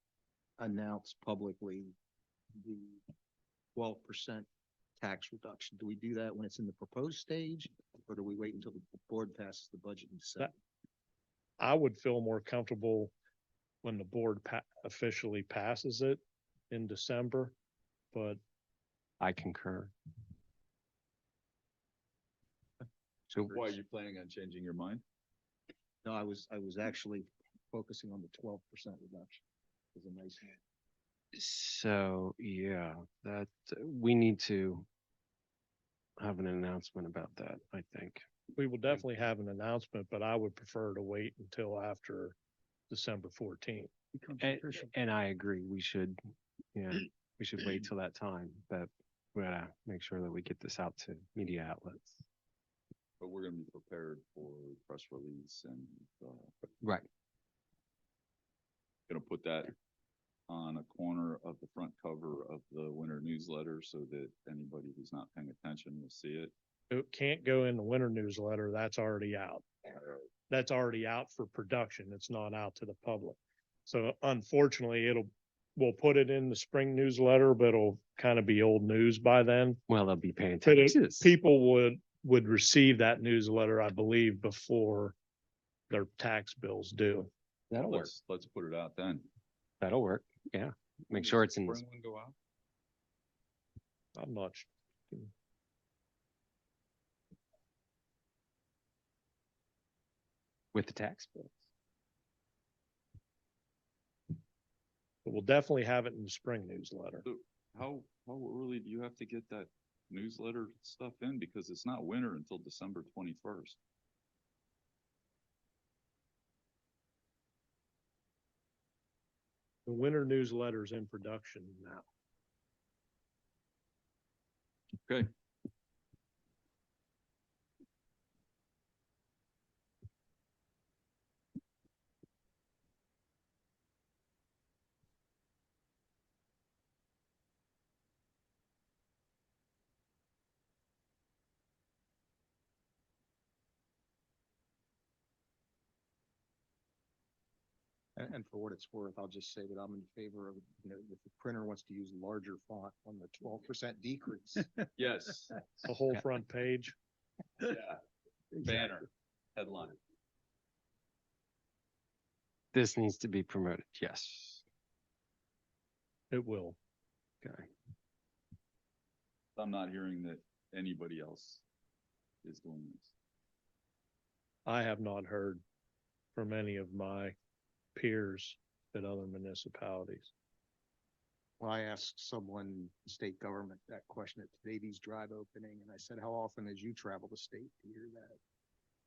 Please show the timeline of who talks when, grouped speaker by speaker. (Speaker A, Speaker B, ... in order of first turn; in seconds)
Speaker A: 0.6-1.9, 2.6-3.0, 3.8-4.5, 5.0-10.5, 23.4-23.8, 26.0-29.4, 29.9-30.6, 44.1-44.9, 148.2-154.7, 181.6-188.4
Speaker B: 11.6-13.1, 13.8-17.6, 18.1-18.4, 38.5-42.4, 42.9-43.9, 66.9-69.7, 70.5-79.8, 80.7-85.2, 85.9-87.3, 94.2-95.3, 105.2-107.2, 119.9-122.1, 155.8-157.0, 166.3-166.8, 174.7-175.6, 176.3-177.3, 177.9-180.3
Speaker C: 19.2-19.9, 31.3-34.9, 36.2-38.2, 44.4-46.2, 46.7-52.2, 79.9-81.3, 87.7-88.1, 89.8-91.8, 100.7-101.6, 162.7-164.6, 167.4-167.7
Speaker D: 23.5-25.0, 53.2-56.5, 59.1-59.7, 60.5-66.5, 87.9-89.3, 91.1-92.3, 107.2-113.8, 125.0-125.3, 155.0-155.6, 157.6-158.0, 158.6-160.0, 169.6-171.6, 172.4-173.1